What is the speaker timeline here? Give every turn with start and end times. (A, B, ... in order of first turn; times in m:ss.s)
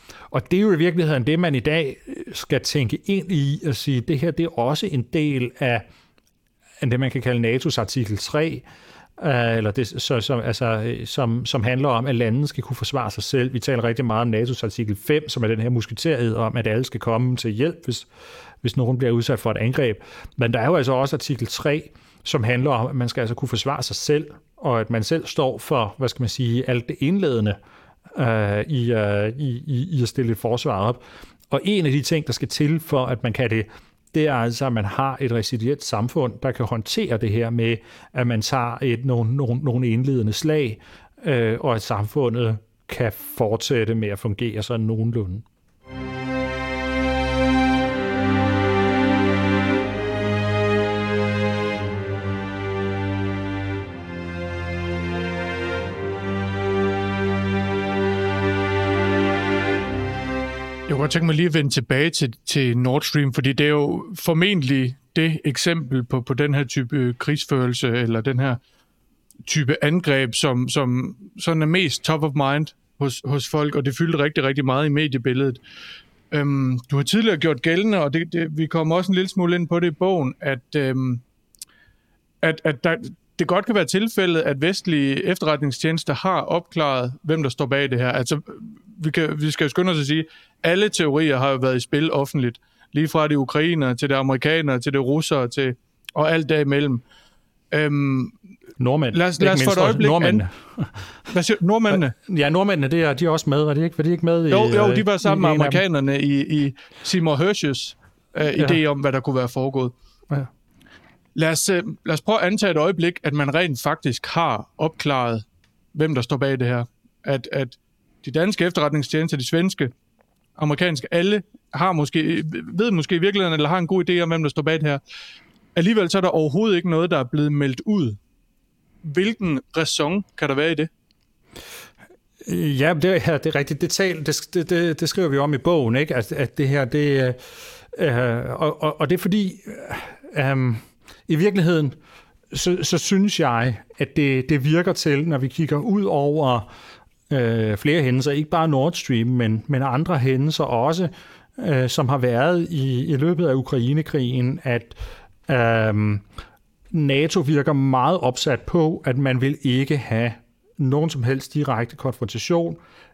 0:00.3-0:05.8 A
0:06.8-0:08.6 A
0:09.2-0:18.0 A
0:18.6-0:27.6 A
0:28.1-0:45.4 A
1:00.9-1:08.6 B
1:09.4-1:15.6 B
1:16.3-1:21.2 B
1:22.4-1:37.0 B
1:37.7-1:38.3 B
1:38.8-1:41.0 A
1:39.1-1:40.4 B
1:41.3-1:42.1 B
1:41.9-1:45.8 A
1:44.5-1:49.9 B
1:51.3-1:59.9 B
2:00.6-2:05.0 B
2:05.7-2:08.2 B
2:09.0-2:10.9 B
2:12.4-2:17.4 A
2:17.9-2:22.0 A
2:22.5-2:26.6 A
2:27.3-2:36.2 A
2:36.9-2:42.8 A